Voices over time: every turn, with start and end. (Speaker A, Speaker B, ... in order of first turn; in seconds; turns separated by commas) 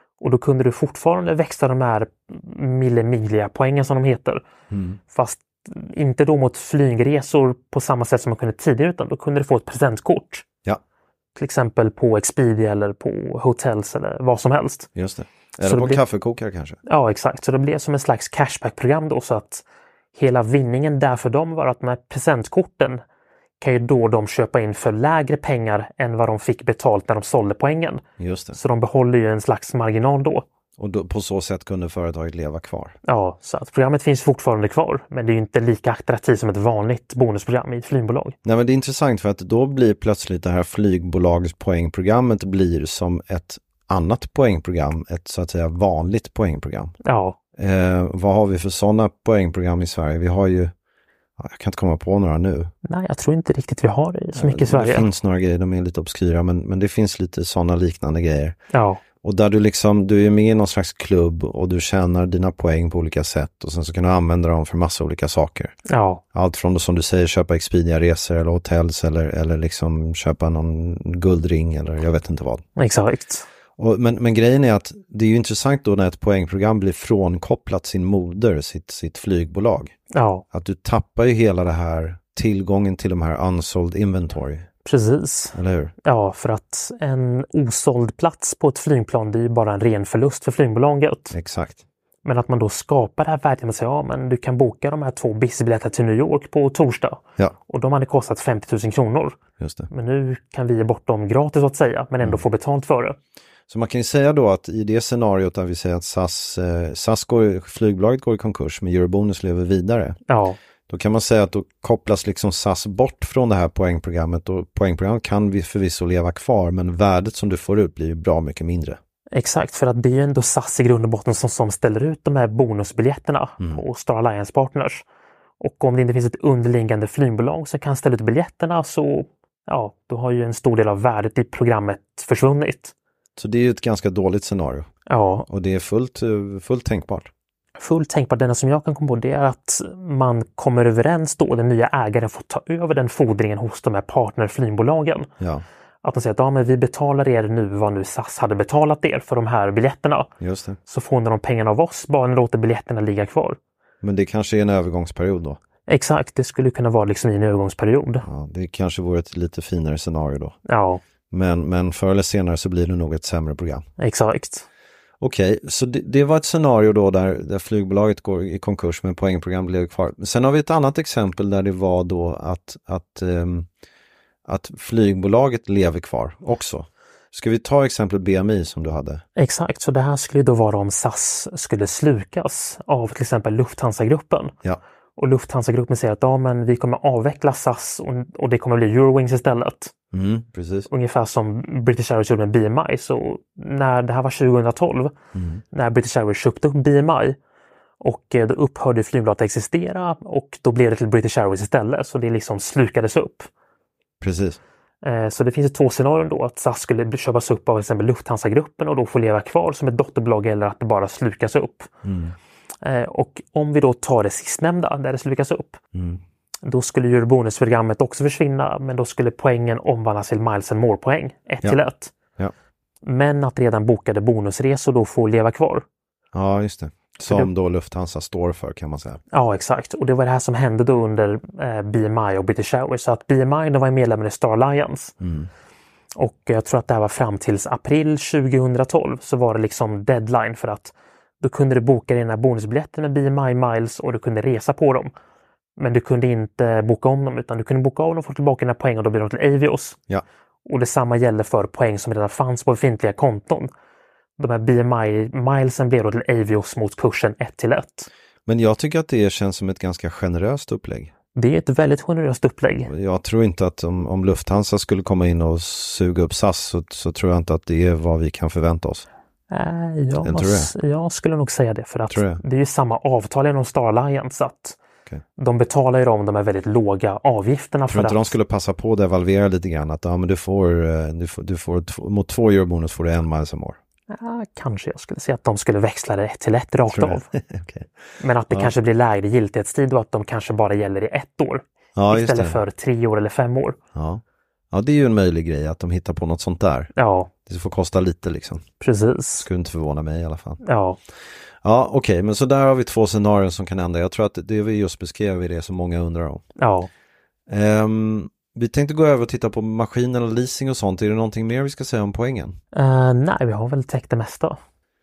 Speaker A: 0.2-4.4, Speaker B: 4.7-5.0, Speaker A: 5.1-10.4, Speaker A: 11.4-14.9, Speaker B: 14.9-16.8, Speaker A: 15.6-16.0, Speaker A: 16.9-19.6, Speaker A: 20.1-23.0, Speaker A: 23.6-28.0, Speaker B: 28.2-28.6, Speaker A: 28.5-30.4, Speaker B: 30.8-32.9, Speaker A: 33.0-38.4, Speaker B: 38.4-46.9, Speaker A: 47.0-47.4, Speaker B: 47.6-50.7, Speaker B: 51.4-52.7, Speaker A: 52.9-55.1, Speaker B: 54.4-58.6, Speaker A: 58.7-59.0, Speaker B: 59.2-65.7, Speaker A: 65.9-66.2, Speaker B: 66.3-72.6, Speaker A: 72.8-73.5, Speaker B: 73.8-79.9, Speaker A: 80.1-80.4, Speaker B: 80.5-84.7, Speaker A: 84.8-91.3, Speaker B: 85.5-85.9, Speaker B: 91.3-91.8, Speaker A: 92.2-99.4, Speaker B: 99.6-99.9, Speaker A: 99.9-103.2, Speaker B: 103.7-110.2, Speaker A: 110.3-110.6, Speaker B: 110.9-119.0, Speaker A: 119.3-125.0, Speaker A: 125.6-132.9, Speaker B: 133.4-134.9, Speaker A: 135.1-135.4, Speaker B: 135.5-137.3, Speaker A: 137.8-145.3, Speaker B: 145.4-145.6, Speaker A: 146.0-150.3, Speaker B: 150.4-150.8, Speaker A: 150.9-153.6, Speaker B: 154.0-155.6, Speaker A: 155.9-158.2, Speaker B: 158.2-160.6, Speaker A: 160.7-161.0, Speaker B: 161.3-163.8, Speaker A: 164.0-164.7, Speaker B: 165.2-173.7, Speaker B: 174.4-179.2, Speaker A: 179.4-184.5, Speaker A: 185.2-189.9, Speaker B: 190.1-190.9, Speaker A: 190.9-195.1, Speaker B: 195.3-195.6, Speaker A: 195.7-197.4, Speaker A: 198.0-203.5, Speaker B: 204.2-204.6, Speaker A: 205.0-211.9, Speaker B: 212.0-212.3, Speaker A: 212.8-215.8, Speaker B: 215.9-216.2, Speaker A: 216.6-222.1, Speaker A: 223.0-225.8, Speaker B: 226.3-229.2, Speaker A: 229.3-235.1, Speaker B: 235.2-235.5, Speaker A: 236.2-245.1, Speaker A: 245.8-250.0, Speaker A: 250.7-253.7, Speaker A: 254.4-258.1, Speaker B: 258.4-261.1, Speaker A: 261.4-262.9, Speaker B: 262.9-269.1, Speaker A: 269.5-274.8, Speaker B: 270.2-270.7, Speaker B: 272.1-272.4, Speaker A: 275.4-278.3, Speaker B: 277.9-283.8, Speaker A: 284.1-287.3, Speaker B: 286.9-287.9, Speaker A: 288.2-293.8, Speaker B: 291.9-292.6, Speaker B: 293.9-296.9, Speaker A: 296.9-297.3, Speaker B: 297.4-298.6, Speaker A: 298.8-299.5, Speaker B: 299.4-300.6, Speaker A: 300.6-301.0, Speaker B: 301.6-306.4, Speaker A: 306.6-306.9, Speaker B: 307.5-312.6, Speaker A: 312.7-314.6